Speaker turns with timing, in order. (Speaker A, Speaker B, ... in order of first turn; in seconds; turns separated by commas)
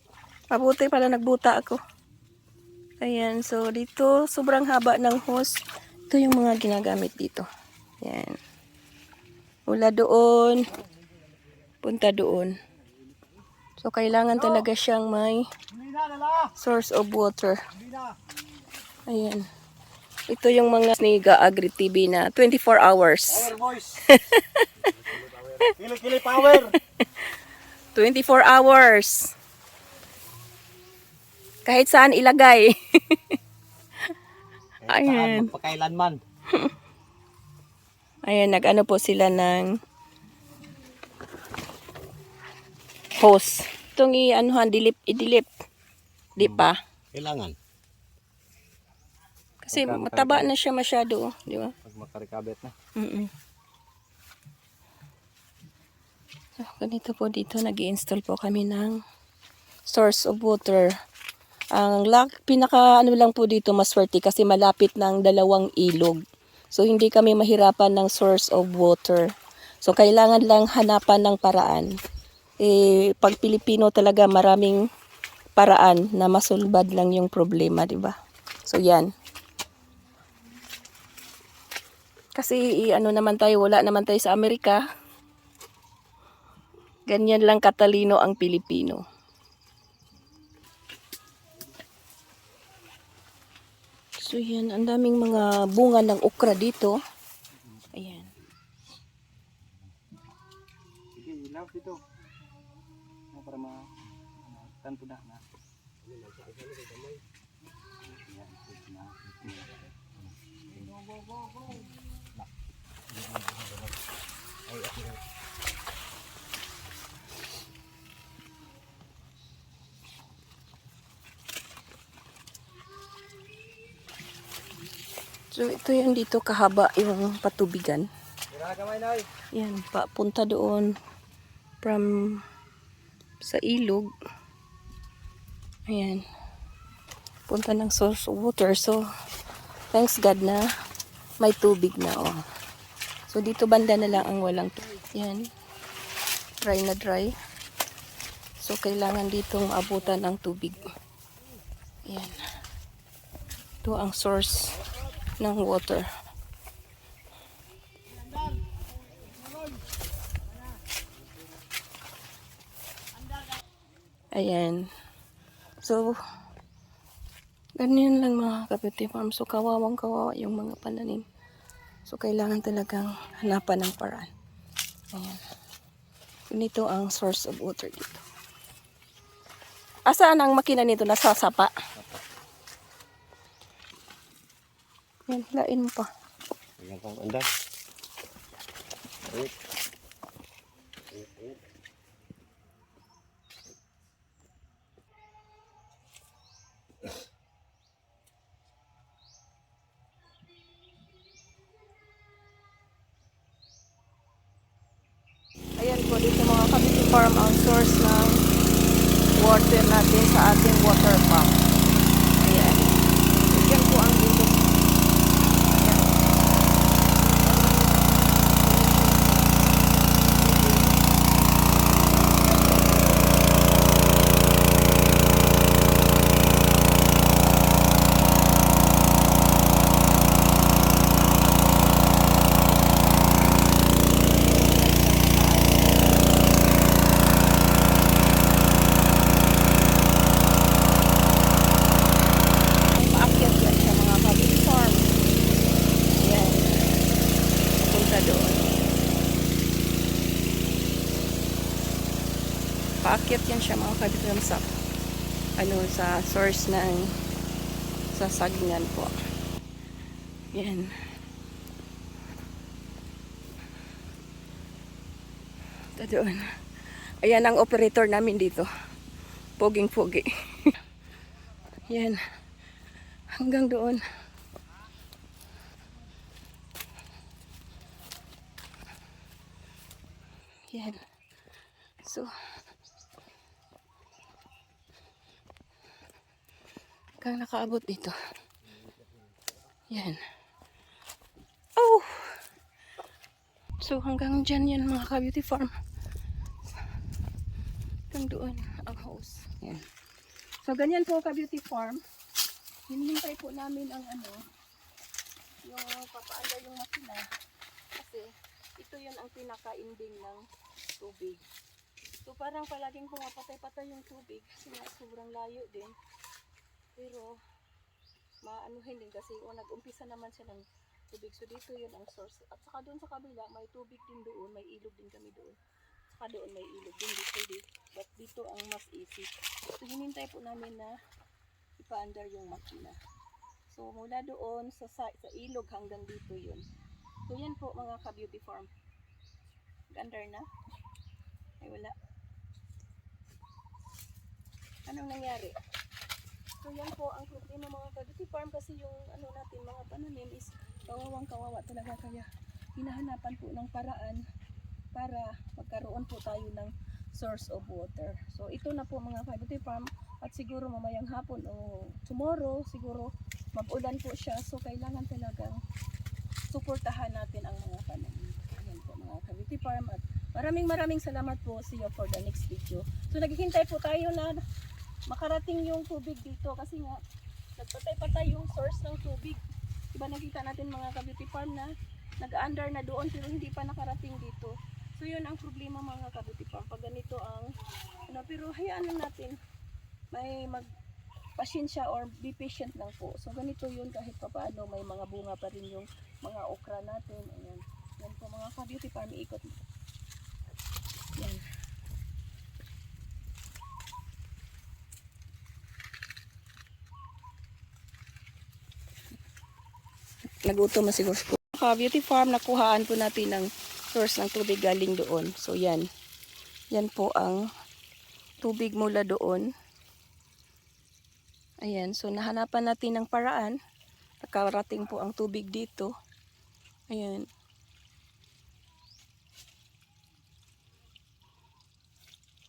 Speaker A: 0.5-1.8, Speaker A: 3.0-7.5, Speaker A: 8.0-8.4, Speaker A: 9.7-10.8, Speaker A: 11.8-12.6, Speaker A: 13.8-15.5, Speaker B: 15.9-16.5, Speaker A: 16.5-17.6, Speaker A: 19.1-19.5, Speaker A: 20.3-23.6, Speaker B: 23.3-24.0, Speaker A: 24.1-24.9, Speaker B: 25.0-26.8, Speaker A: 26.3-27.2, Speaker A: 27.9-29.3, Speaker A: 31.7-33.4, Speaker B: 34.8-36.2, Speaker A: 34.9-35.5, Speaker A: 38.2-39.7, Speaker A: 43.2-45.5, Speaker A: 46.4-46.8, Speaker B: 46.4-47.6, Speaker A: 49.6-51.7, Speaker B: 49.7-50.5, Speaker B: 51.9-52.7, Speaker A: 53.0-53.3, Speaker A: 56.6-59.0, Speaker A: 59.9-60.9, Speaker A: 61.8-66.2, Speaker A: 66.7-69.3, Speaker A: 69.8-71.9, Speaker A: 72.6-74.8, Speaker A: 75.6-79.1, Speaker A: 82.4-84.8, Speaker A: 87.1-89.0, Speaker A: 94.2-97.0, Speaker A: 97.9-98.3, Speaker B: 101.2-102.0, Speaker B: 103.3-105.4, Speaker B: 108.0-111.0, Speaker B: 114.8-115.1, Speaker A: 125.5-128.1, Speaker B: 128.5-129.3, Speaker A: 129.5-130.9, Speaker A: 131.8-132.4, Speaker A: 133.4-134.1, Speaker A: 135.9-136.2, Speaker A: 137.5-139.0, Speaker A: 139.9-140.6, Speaker A: 141.4-142.4, Speaker A: 143.3-145.5, Speaker A: 146.6-147.3, Speaker A: 148.6-150.9, Speaker A: 152.1-152.4, Speaker A: 153.8-154.8, Speaker A: 155.4-156.1, Speaker A: 164.3-164.9, Speaker A: 165.8-166.2, Speaker A: 167.8-171.2, Speaker A: 172.1-174.3, Speaker A: 175.1-175.4, Speaker A: 176.5-178.2, Speaker A: 180.1-181.7, Speaker A: 185.3-186.1, Speaker B: 186.8-187.4, Speaker B: 191.2-191.5, Speaker A: 205.8-208.4, Speaker A: 209.4-211.6, Speaker A: 212.4-213.0, Speaker A: 213.5-214.6, Speaker A: 215.7-216.2, Speaker A: 217.3-219.5, Speaker A: 220.4-220.9, Speaker A: 222.4-223.2, Speaker A: 234.2-236.5, Speaker A: 242.9-245.1, Speaker A: 246.2-246.8, Speaker A: 247.8-249.0, Speaker A: 253.0-254.7, Speaker A: 255.6-257.1, Speaker A: 258.1-259.1, Speaker A: 260.5-260.9, Speaker A: 266.0-266.4, Speaker A: 267.2-268.7, Speaker A: 269.6-270.8, Speaker A: 271.9-272.2, Speaker A: 273.4-274.0, Speaker A: 280.7-281.0, Speaker A: 282.0-282.3, Speaker A: 287.2-288.1, Speaker A: 289.9-290.2, Speaker A: 291.8-292.4, Speaker A: 293.8-295.7, Speaker A: 298.1-299.9, Speaker A: 300.6-302.0, Speaker A: 302.9-304.4, Speaker A: 305.6-307.3, Speaker A: 308.0-310.4, Speaker A: 311.0-311.4, Speaker A: 312.2-315.9, Speaker A: 317.0-317.4, Speaker A: 318.4-325.6, Speaker A: 326.1-330.9, Speaker A: 331.8-333.0, Speaker A: 333.7-336.6, Speaker A: 337.3-338.7, Speaker A: 339.9-340.5, Speaker A: 341.6-341.9, Speaker A: 344.9-345.6, Speaker A: 346.6-352.3, Speaker A: 352.8-354.2, Speaker A: 354.9-365.6, Speaker A: 366.5-374.4, Speaker A: 375.1-377.0, Speaker A: 377.6-379.4, Speaker A: 379.9-381.7, Speaker A: 382.2-387.5, Speaker A: 388.1-389.4, Speaker A: 390.1-390.7, Speaker A: 391.4-399.6, Speaker A: 401.2-401.4, Speaker A: 410.3-415.9, Speaker A: 416.7-417.4, Speaker A: 418.4-419.5, Speaker A: 421.6-423.6, Speaker A: 424.2-425.9, Speaker A: 426.9-427.3